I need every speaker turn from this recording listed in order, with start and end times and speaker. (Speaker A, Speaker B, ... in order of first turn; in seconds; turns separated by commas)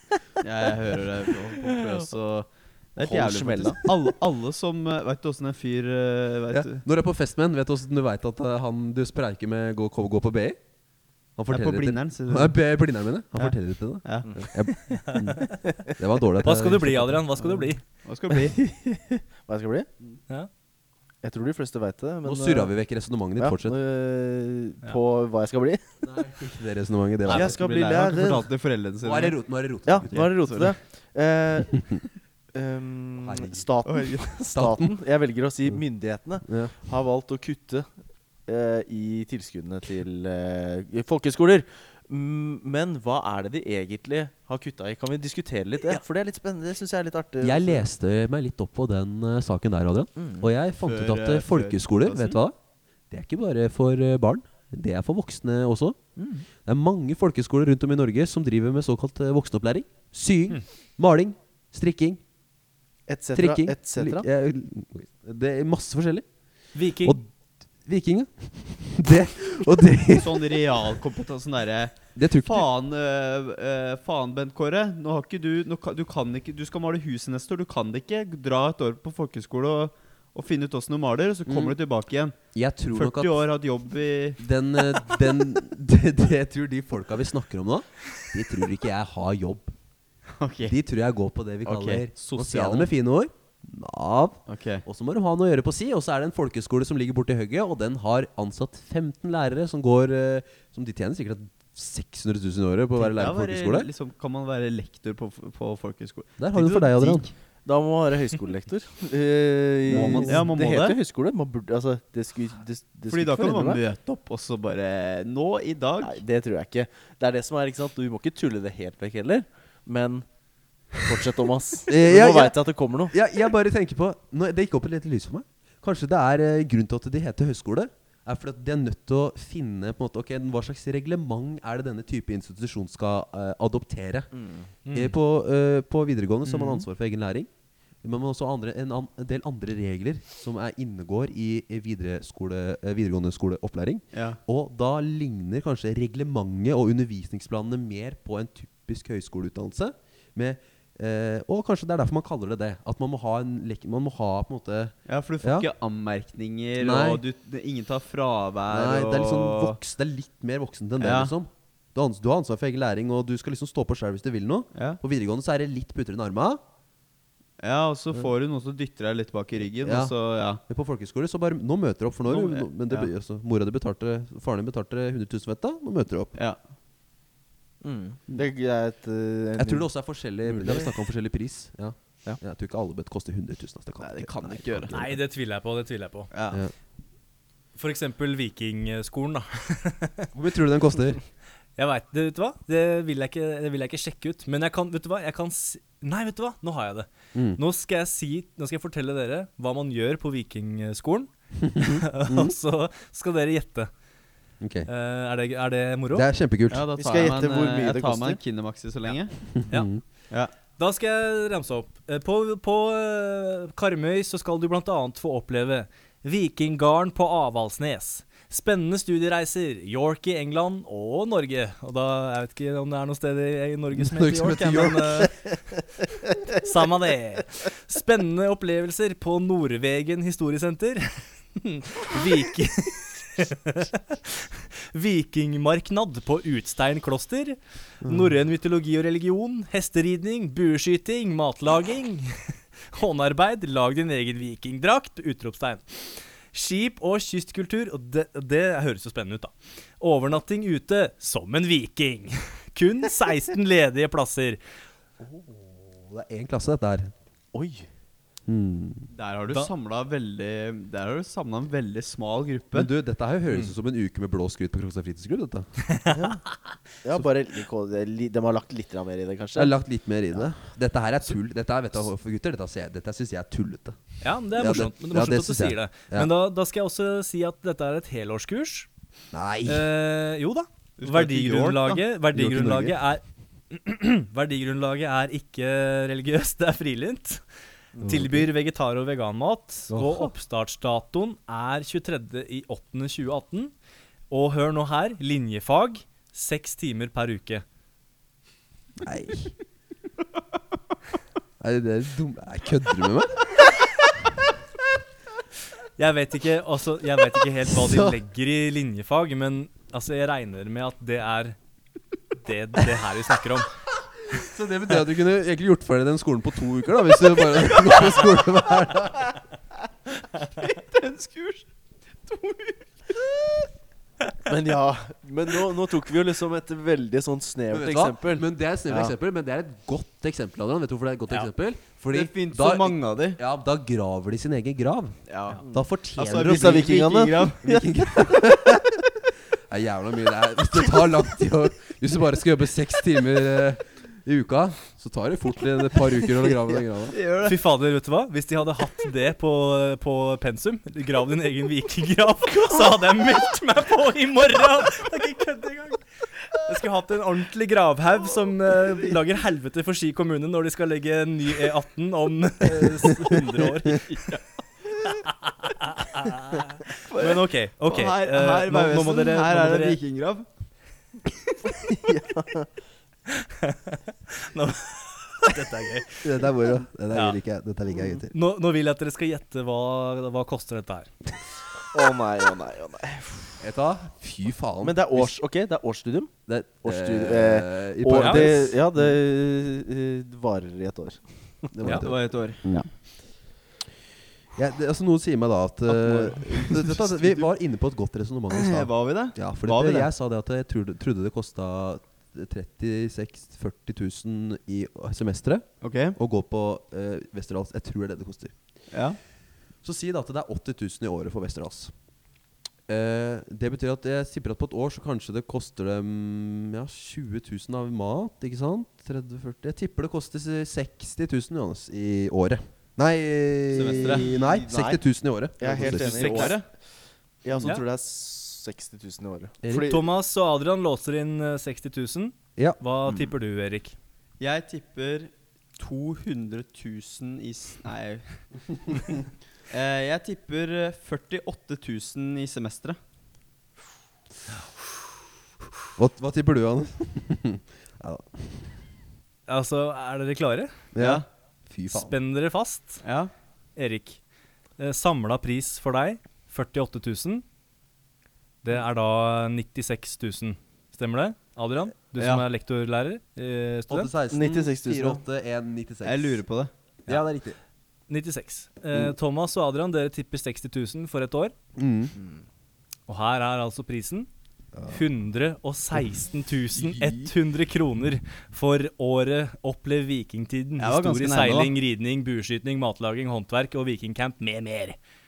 Speaker A: 0.4-6.8, Speaker B: 0.6-2.1, Speaker B: 3.0-3.9, Speaker C: 6.5-10.6, Speaker C: 11.3-17.2, Speaker A: 11.5-12.6, Speaker A: 13.3-14.4, Speaker D: 15.0-15.4, Speaker D: 16.4-17.8, Speaker A: 18.0-18.6, Speaker B: 18.3-19.9, Speaker B: 21.2-22.7, Speaker C: 22.2-23.8, Speaker B: 23.4-25.8, Speaker C: 26.0-27.6, Speaker B: 27.3-28.5, Speaker A: 27.3-29.4, Speaker C: 29.0-30.4, Speaker B: 29.9-31.9, Speaker A: 30.1-30.7, Speaker B: 32.5-37.9, Speaker C: 33.2-33.6, Speaker A: 33.9-34.4, Speaker C: 34.5-34.9, Speaker C: 36.4-36.7, Speaker B: 38.5-47.9, Speaker C: 47.4-52.5, Speaker B: 50.2-50.4, Speaker A: 50.8-52.4, Speaker C: 53.1-56.0, Speaker B: 56.1-56.4, Speaker C: 56.6-62.2, Speaker B: 63.1-64.2, Speaker C: 63.3-66.3, Speaker D: 66.7-67.2, Speaker C: 67.0-67.3, Speaker C: 67.8-70.6, Speaker A: 70.1-82.4, Speaker C: 72.1-72.7, Speaker C: 81.5-81.8, Speaker C: 82.5-83.4, Speaker A: 82.9-84.4, Speaker C: 84.4-89.7, Speaker A: 90.3-90.8, Speaker C: 90.6-103.9, Speaker A: 91.6-92.9, Speaker A: 94.5-94.8, Speaker A: 103.0-107.3, Speaker C: 106.4-107.3, Speaker B: 107.6-113.8, Speaker C: 109.9-110.3, Speaker A: 109.9-111.0, Speaker A: 113.1-116.2, Speaker B: 116.0-120.2, Speaker B: 121.0-123.1, Speaker C: 121.9-122.6, Speaker C: 123.1-134.3, Speaker B: 134.3-134.7, Speaker D: 134.8-135.1, Speaker C: 134.9-137.5, Speaker A: 136.5-136.8, Speaker C: 138.0-155.7, Speaker A: 144.1-144.4, Speaker A: 155.1-159.8, Speaker C: 156.8-157.2, Speaker C: 158.7-166.6, Speaker A: 161.0-161.3, Speaker A: 164.7-165.0, Speaker A: 167.6-170.6, Speaker C: 169.8-176.3, Speaker A: 172.2-173.1, Speaker B: 177.8-179.9, Speaker C: 179.6-185.2, Speaker B: 180.4-180.9, Speaker A: 184.0-184.9, Speaker D: 184.9-186.3, Speaker A: 186.3-186.6, Speaker D: 187.8-190.3, Speaker C: 190.3-191.2, Speaker D: 191.8-203.9, Speaker C: 197.3-197.6, Speaker C: 201.6-202.5, Speaker C: 204.6-204.9, Speaker D: 204.8-206.3, Speaker C: 206.1-206.8, Speaker A: 206.7-209.4, Speaker B: 207.0-208.4, Speaker C: 209.5-210.0, Speaker D: 210.8-225.8, Speaker C: 223.9-225.3, Speaker D: 226.4-254.6, Speaker C: 238.0-238.3, Speaker C: 255.2-257.1, Speaker B: 257.5-257.9, Speaker C: 258.5-259.1, Speaker A: 259.1-262.9, Speaker C: 262.7-265.7, Speaker D: 265.9-266.2, Speaker B: 266.1-266.4, Speaker B: 267.0-269.7, Speaker C: 269.5-274.0, Speaker D: 274.2-278.9, Speaker C: 274.5-276.3, Speaker C: 279.3-279.9, Speaker D: 279.6-287.4, Speaker A: 281.0-282.0, Speaker C: 282.3-283.0, Speaker C: 288.0-288.5, Speaker D: 288.0-293.7, Speaker C: 289.9-290.3, Speaker D: 294.3-297.6, Speaker C: 299.0-299.5, Speaker C: 301.6-303.4, Speaker D: 306.0-311.6, Speaker C: 307.8-308.1, Speaker D: 312.4-313.7, Speaker C: 314.3-319.3, Speaker A: 320.3-321.7, Speaker A: 322.2-323.6, Speaker B: 324.4-329.1, Speaker C: 327.7-336.9, Speaker A: 332.1-333.4, Speaker A: 335.3-335.6, Speaker A: 336.2-337.8, Speaker B: 336.3-338.7, Speaker C: 337.6-338.8, Speaker C: 339.7-347.1, Speaker A: 347.1-347.6, Speaker D: 347.4-364.4, Speaker D: 365.0-370.0, Speaker A: 367.1-370.5, Speaker B: 371.7-372.7, Speaker D: 373.3-376.4, Speaker C: 376.2-378.3, Speaker D: 377.1-377.4, Speaker D: 378.3-381.1, Speaker B: 381.9-383.6, Speaker C: 383.6-385.3, Speaker B: 384.8-391.7, Speaker C: 386.5-389.1, Speaker D: 388.1-388.5, Speaker C: 391.7-392.9, Speaker A: 391.9-392.7, Speaker C: 394.6-408.5, Speaker A: 395.9-397.5, Speaker A: 398.5-400.1, Speaker A: 405.8-406.2, Speaker A: 408.9-409.2, Speaker C: 409.8-411.9, Speaker C: 412.9-426.5, Speaker A: 423.7-424.6, Speaker B: 423.9-425.0, Speaker B: 425.6-426.6, Speaker A: 425.7-426.6, Speaker B: 427.4-430.0, Speaker C: 429.6-429.9, Speaker D: 429.7-433.9, Speaker A: 434.4-439.1, Speaker A: 439.7-443.0, Speaker C: 445.9-448.7, Speaker D: 449.5-450.7, Speaker C: 450.9-452.1, Speaker A: 451.0-451.2, Speaker D: 451.9-453.0, Speaker A: 453.0-453.3, Speaker D: 453.8-454.2, Speaker D: 454.8-457.4, Speaker D: 458.6-464.1, Speaker A: 462.2-462.4, Speaker C: 463.9-466.4, Speaker B: 464.3-465.2, Speaker A: 466.0-466.7, Speaker C: 467.1-467.6, Speaker D: 468.1-471.5, Speaker C: 471.8-472.1, Speaker D: 473.1-474.3, Speaker C: 474.7-475.0, Speaker D: 474.9-485.0, Speaker C: 476.7-477.3, Speaker A: 480.8-481.7